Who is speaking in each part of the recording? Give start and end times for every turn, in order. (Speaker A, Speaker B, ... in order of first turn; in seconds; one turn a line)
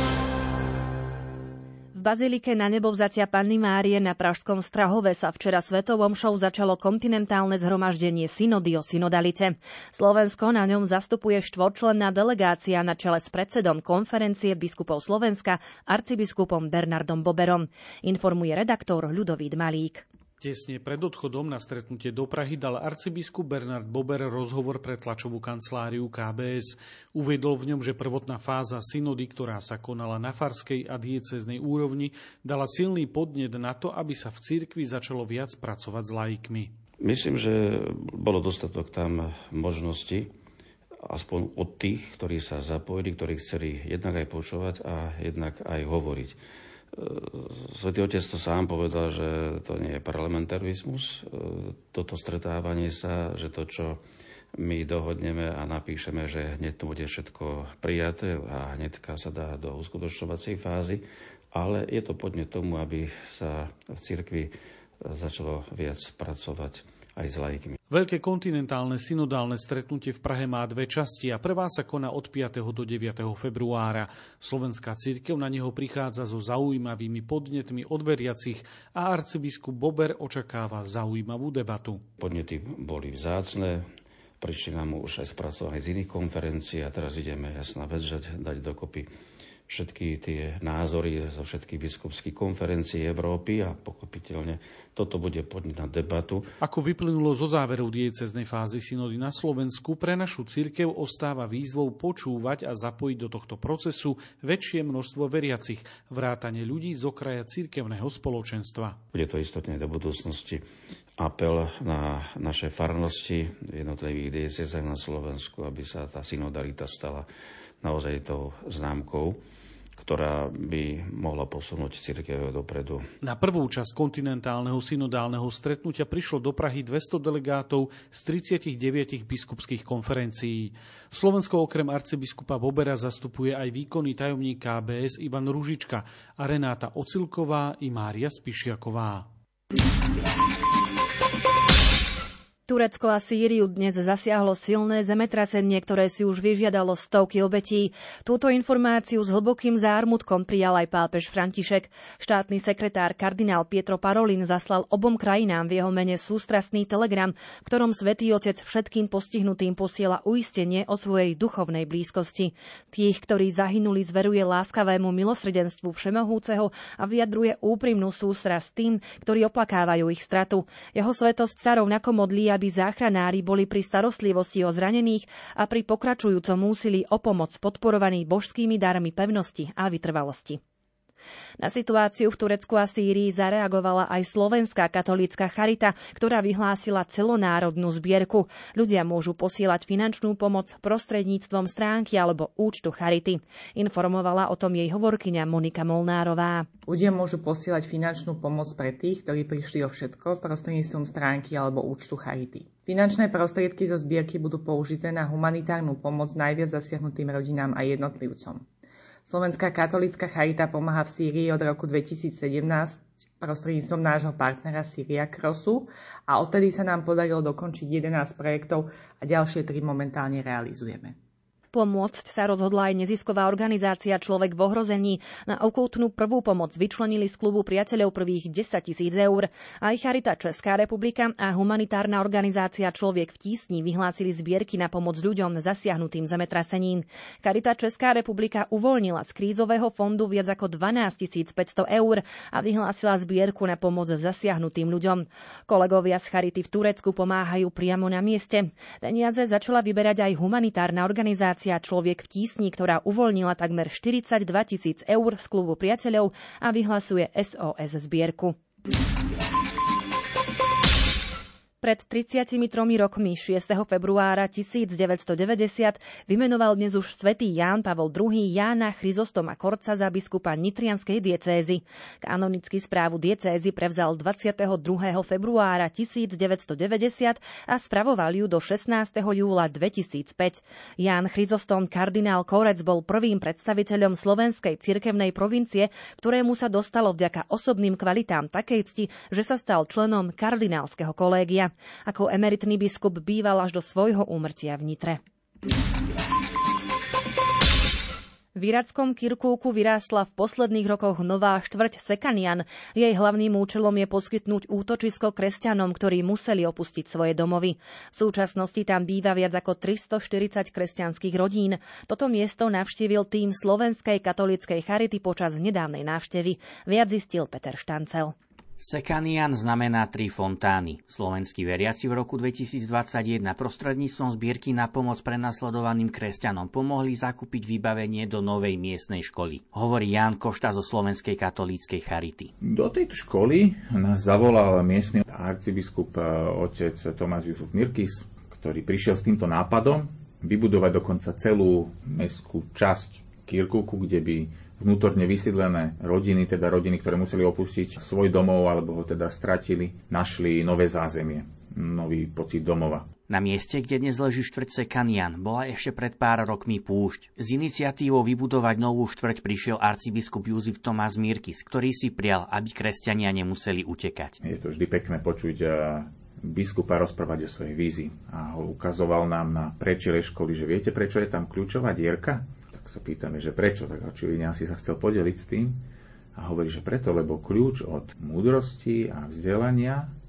Speaker A: 1.9-20.0
Speaker B: 20.4-36.7
Speaker C: 37.0-40.3
Speaker C: 41.0-46.4
Speaker C: 46.9-54.0
Speaker C: 54.6-67.8
Speaker B: 67.9-82.0
Speaker C: 82.2-83.8
Speaker C: 84.4-89.1
Speaker C: 89.7-96.5
Speaker B: 96.6-109.0
Speaker C: 109.1-110.6
Speaker C: 111.2-117.3
Speaker C: 117.8-119.4
Speaker C: 120.0-123.0
Speaker B: 123.2-139.3
Speaker A: 142.7-180.6
Speaker A: 181.6-196.7
Speaker D: 196.9-208.7
Speaker D: 209.2-221.2
Speaker A: 221.7-258.6
Speaker A: 261.8-295.2
Speaker A: 298.5-318.3
Speaker E: 318.8-332.5
Speaker F: 332.6-353.1
Speaker E: 353.3-364.4
Speaker F: 364.4-375.8
Speaker F: 376.4-380.1